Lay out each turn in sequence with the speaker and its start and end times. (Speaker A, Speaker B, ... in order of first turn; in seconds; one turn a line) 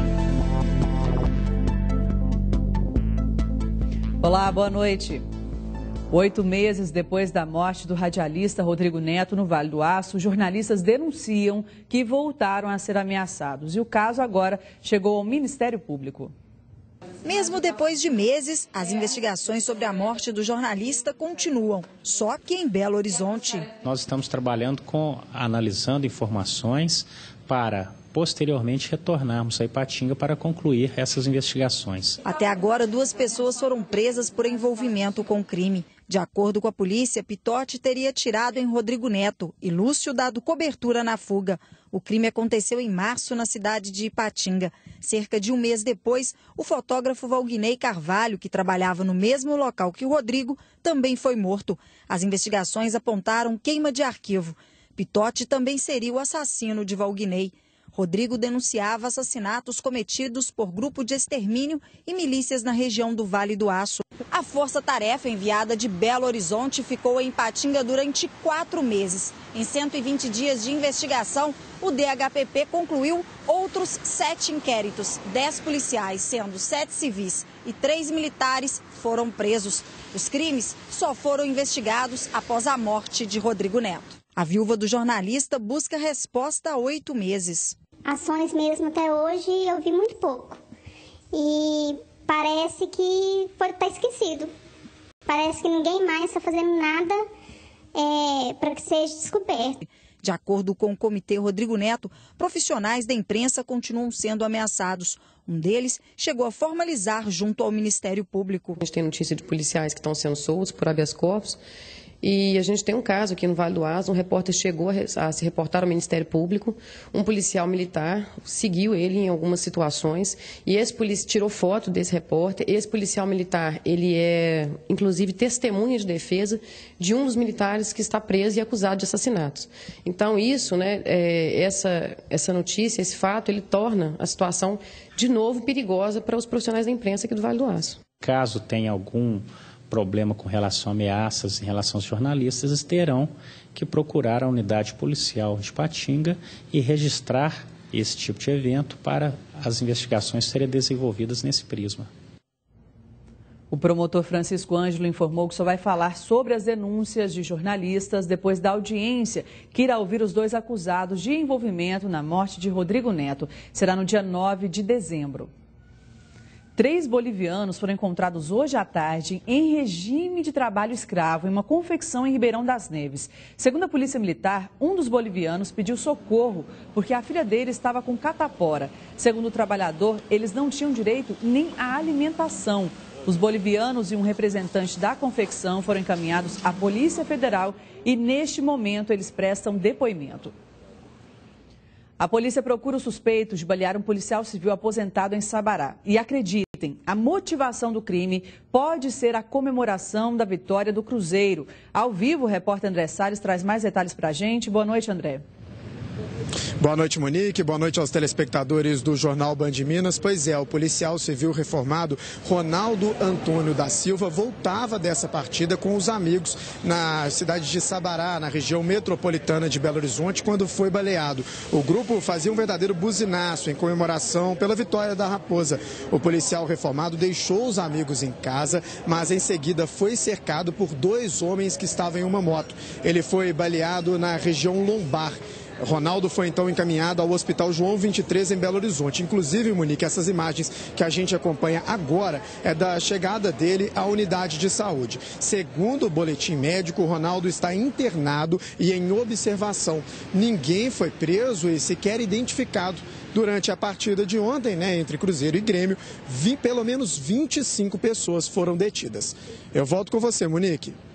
Speaker A: 4.2-5.2
Speaker A: 6.1-16.3
Speaker B: 17.2-23.7
Speaker C: 23.8-32.2
Speaker B: 32.2-87.8
Speaker D: 88.1-90.5
Speaker D: 91.3-94.5
Speaker D: 95.3-97.2
Speaker D: 98.0-99.7
Speaker B: 100.2-108.8
Speaker E: 108.8-111.6
Speaker E: 112.2-138.0
Speaker C: 138.2-152.1
Speaker A: 153.7-165.5
Speaker A: 166.8-190.5
Speaker A: 192.2-205.4
Speaker F: 206.8-260.9